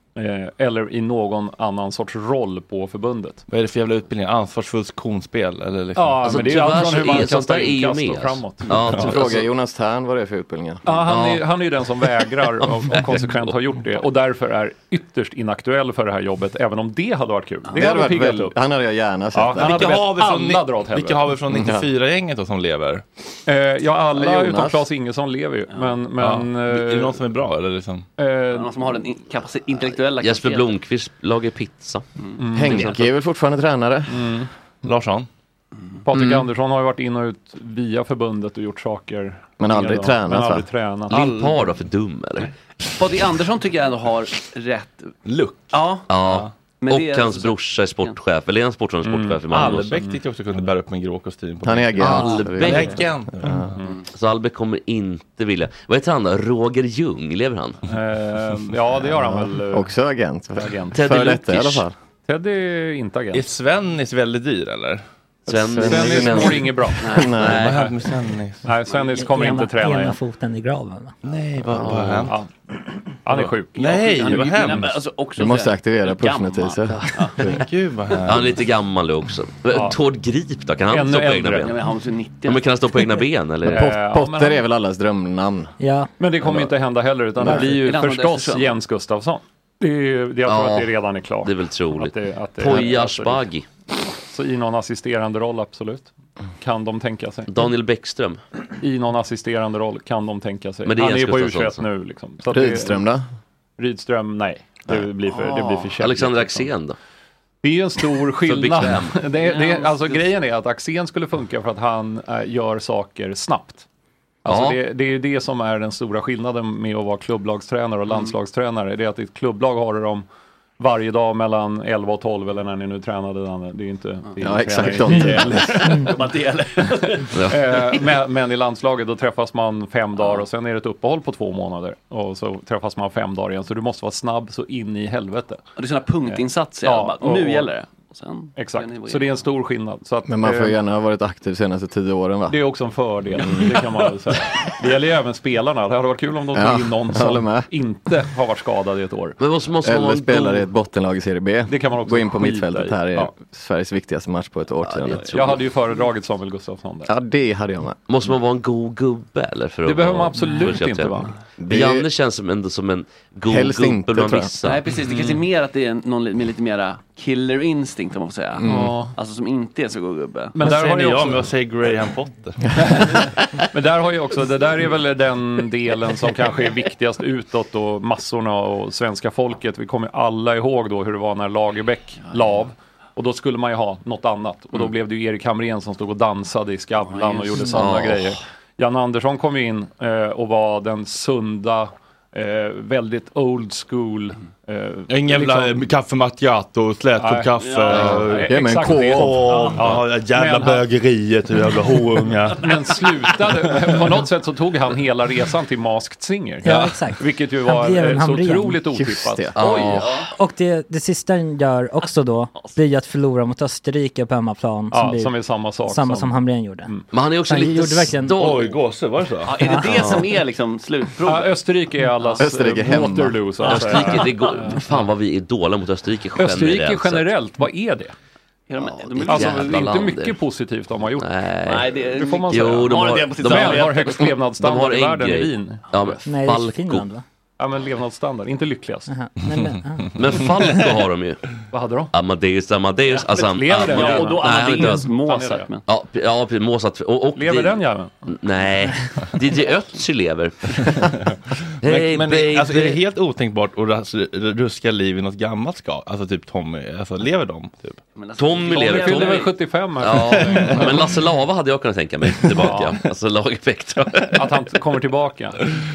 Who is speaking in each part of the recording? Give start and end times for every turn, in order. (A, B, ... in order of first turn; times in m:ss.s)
0:00.1-0:03.4 A
0:03.5-0:06.7 B
0:06.0-0:08.7 A
0:06.2-0:09.5 C
0:09.0-0:10.9 D
0:10.8-0:18.6 A
0:11.0-0:11.5 C
0:12.0-0:13.6 C
0:17.7-0:20.0 D
0:19.3-0:21.3 A
0:19.5-0:23.0 B
0:21.5-0:21.9 D
0:23.4-0:27.2 A
0:24.1-0:24.9 D
0:26.2-0:28.0 B
0:28.2-0:28.8 A
0:28.5-0:30.7 E
0:30.2-0:32.0 C
0:32.2-0:33.0 E
0:32.4-0:32.9 A
0:32.5-0:34.4 D
0:32.7-0:33.0 C
0:34.1-0:34.5 A
0:34.8-0:35.3 B
0:36.0-0:41.3 A
0:36.1-0:36.4 D
0:39.6-0:40.7 D
0:41.1-0:42.5 C
0:41.1-0:41.5 B
0:43.0-0:45.2 E
0:45.2-0:46.5 B
0:45.7-0:46.1 E
0:46.1-0:50.0 C
0:46.8-0:48.2 E
0:49.0-0:50.6 A
0:49.5-0:53.7 B
0:51.6-0:52.9 D
0:52.0-0:53.0 C
0:53.4-0:53.7 D
0:54.1-0:57.8 C
0:57.9-0:59.9 A
0:59.0-1:01.9 D
1:00.6-1:01.1 A
1:00.9-1:01.8 C
1:02.2-1:03.5 A
1:03.3-1:05.0 B
1:05.5-1:07.6 D
1:05.5-1:07.8 C
1:05.5-1:08.0 A
1:07.0-1:07.3 E
1:07.6-1:08.7 B
1:08.6-1:10.2 A
1:09.2-1:11.1 F
1:11.2-1:12.4 B
1:12.1-1:12.5 A
1:13.1-1:13.9 A
1:13.8-1:14.9 B
1:13.8-1:17.4 E
1:15.4-1:17.6 D
1:17.4-1:18.6 B
1:18.3-1:21.7 C
1:19.7-1:20.0 A
1:20.9-1:21.7 A
1:21.6-1:22.6 E
1:22.4-1:23.9 C
1:23.6-1:24.6 A
1:23.6-1:25.7 D
1:25.8-1:26.1 F
1:26.2-1:33.5 A
1:27.4-1:27.7 D
1:27.5-1:28.8 E
1:30.4-1:33.7 C
1:34.3-1:37.6 A
1:37.5-1:38.4 C
1:38.8-1:43.0 A
1:40.8-1:41.8 C
1:42.5-1:43.2 D
1:43.8-1:46.7 A
1:46.0-1:47.0 C
1:47.6-1:53.8 A
1:48.4-1:49.1 C
1:49.4-1:50.2 E
1:54.4-2:00.2 A
1:54.5-1:54.8 C
2:00.8-2:06.2 A
2:04.4-2:05.8 D
2:06.0-2:07.4 E
2:07.0-2:15.6 A
2:15.8-2:19.4 E
2:16.2-2:17.7 A
2:18.6-2:20.8 A
2:20.2-2:22.6 D
2:22.5-2:29.4 A
2:23.3-2:23.8 D
2:26.5-2:27.7 D
2:29.4-2:30.6 C
2:29.8-2:35.4 D
2:31.7-2:33.3 A
2:34.8-2:35.6 C
2:35.3-2:37.1 A
2:37.0-2:38.0 D
2:38.1-2:44.8 C
2:39.8-2:41.4 A
2:41.6-2:42.1 D
2:43.5-2:44.6 D
2:44.6-2:50.6 E
2:45.1-2:45.4 A
2:48.6-2:49.0 D
2:48.6-2:49.1 A
2:50.5-2:51.5 A
2:50.6-2:52.6 B
2:52.8-3:15.9 A
3:07.1-3:07.8 E
3:07.7-3:08.4 C
3:15.1-3:22.8 B
3:17.2-3:20.8 A
3:17.6-3:18.2 E
3:18.4-3:19.5 D
3:22.6-3:30.0 A
3:26.6-3:28.8 F
3:28.9-3:29.6 D
3:29.6-3:30.2 C
3:30.4-3:36.9 F
3:34.9-3:37.0 A
3:37.1-3:38.8 C
3:37.4-3:38.4 F
3:38.4-3:39.6 B
3:39.4-3:41.6 E
3:39.8-3:40.3 C
3:41.2-3:45.1 A
3:42.4-3:43.7 D
3:43.7-3:47.3 C
3:43.8-3:44.2 E
3:46.3-3:48.1 A
3:48.7-3:49.9 E
3:48.8-3:50.4 C
3:49.2-3:51.3 A
3:51.2-3:51.9 C
3:51.6-3:54.3 E
3:52.0-3:56.2 A
3:52.5-3:57.1 C
3:56.2-3:57.2 F
3:57.6-3:59.1 A
3:59.1-4:00.1 F
4:00.2-4:01.4 C
4:01.7-4:02.1 A
4:02.1-4:05.1 C
4:03.2-4:05.8 E
4:03.3-4:05.8 A
4:05.8-4:11.1 C
4:07.3-4:08.3 A
4:11.8-4:13.0 C
4:11.8-4:18.0 B
4:18.2-4:19.5 E
4:18.4-4:24.6 C
4:18.7-4:21.0 A
4:20.4-4:20.9 B
4:22.4-4:22.8 B
4:22.6-4:23.0 A
4:24.3-4:25.6 A